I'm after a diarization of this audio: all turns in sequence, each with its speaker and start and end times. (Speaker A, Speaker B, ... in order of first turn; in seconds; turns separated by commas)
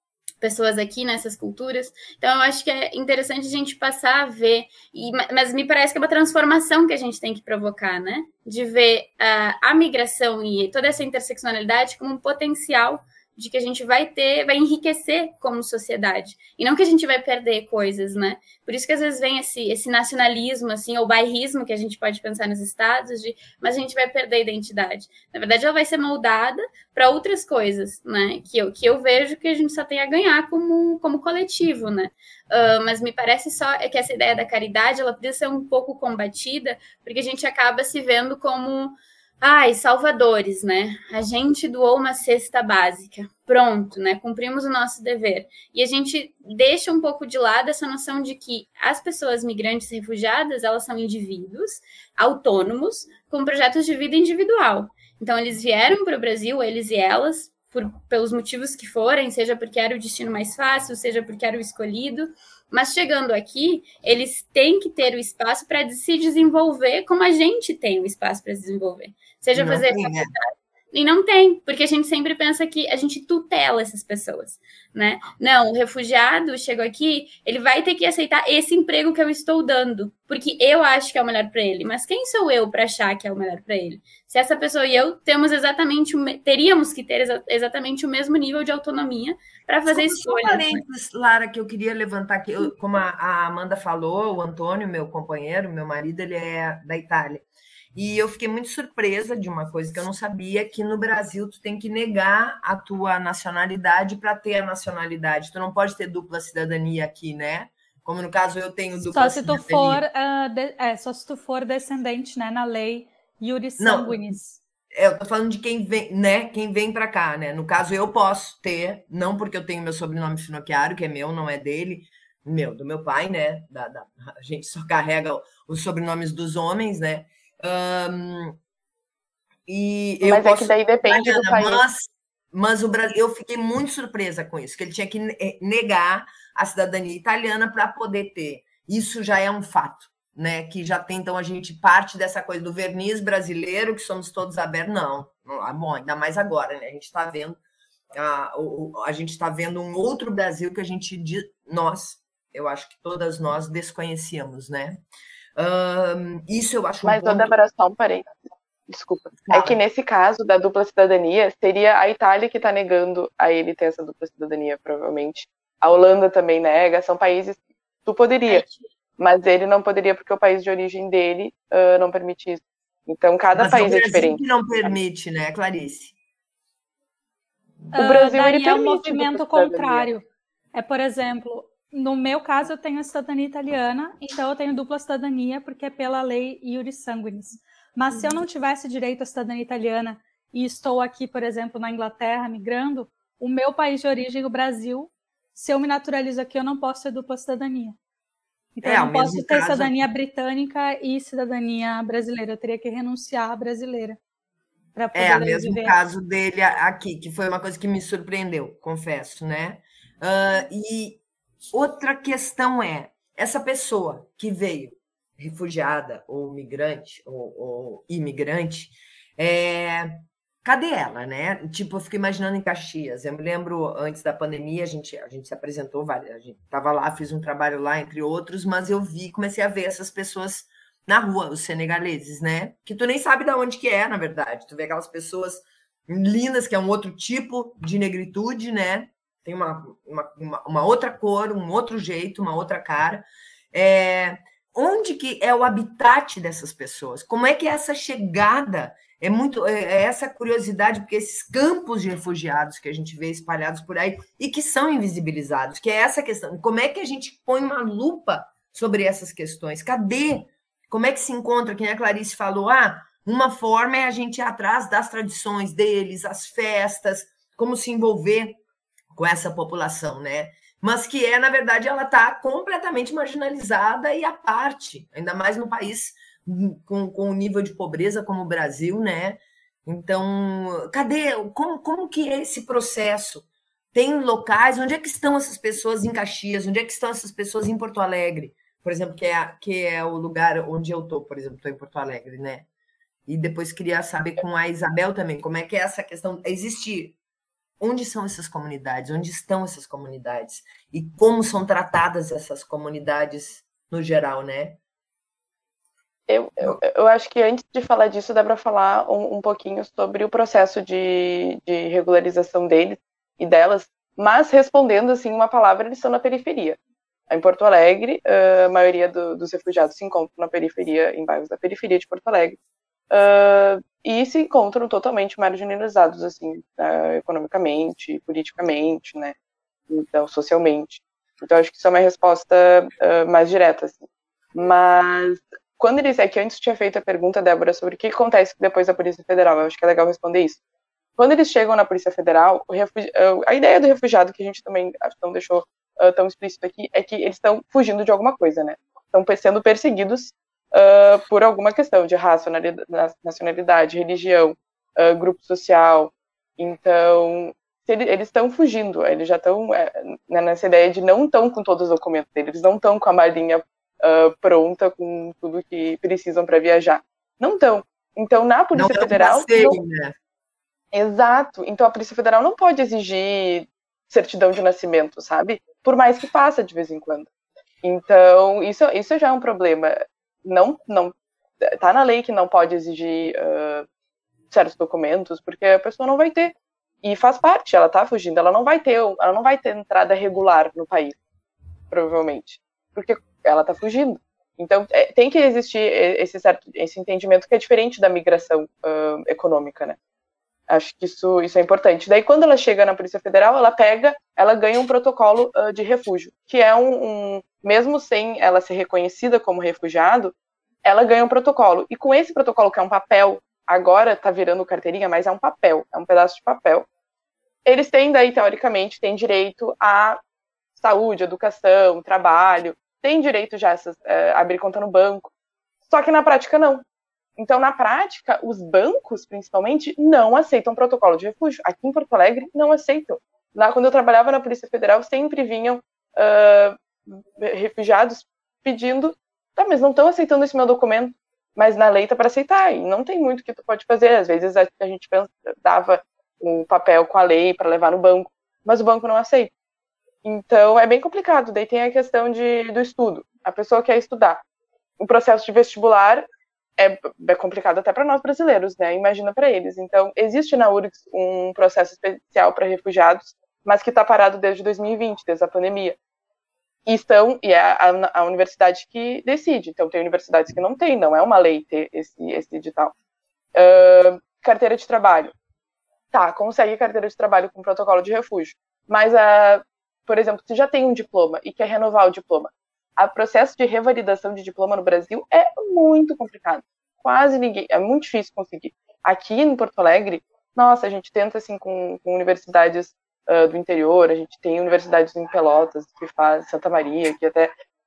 Speaker A: 0.4-90.8, Speaker B: 69.5-70.3, Speaker B: 89.9-97.4, Speaker B: 97.9-110.0, Speaker C: 109.0-114.6, Speaker B: 113.8-114.3, Speaker B: 115.0-128.6, Speaker B: 129.7-147.6, Speaker D: 130.2-131.8, Speaker B: 148.1-155.0, Speaker B: 155.6-157.5, Speaker D: 157.0-158.3, Speaker D: 158.9-168.7, Speaker B: 159.4-159.8, Speaker A: 168.5-168.8, Speaker D: 169.2-174.9, Speaker B: 173.6-176.1, Speaker C: 177.9-197.9, Speaker D: 177.9-180.1, Speaker C: 198.8-204.2, Speaker B: 198.8-200.1, Speaker C: 204.9-205.9, Speaker B: 205.1-211.2, Speaker B: 211.7-268.6, Speaker B: 269.1-292.7, Speaker B: 293.3-297.1, Speaker B: 297.8-304.8, Speaker D: 306.3-316.8, Speaker D: 317.3-322.6, Speaker D: 323.1-329.3, Speaker D: 329.9-340.6, Speaker D: 341.2-369.8, Speaker B: 368.7-370.1, Speaker D: 370.9-377.3, Speaker D: 377.8-383.9, Speaker D: 384.5-391.2, Speaker D: 391.9-400.0, Speaker D: 400.7-410.3, Speaker D: 410.8-416.9, Speaker D: 417.6-420.2, Speaker D: 420.8-425.3, Speaker D: 425.9-426.8, Speaker D: 427.4-449.5, Speaker D: 450.2-454.4, Speaker D: 455.0-456.3, Speaker D: 456.8-466.0, Speaker D: 466.9-472.9, Speaker D: 473.5-475.3, Speaker D: 476.1-497.5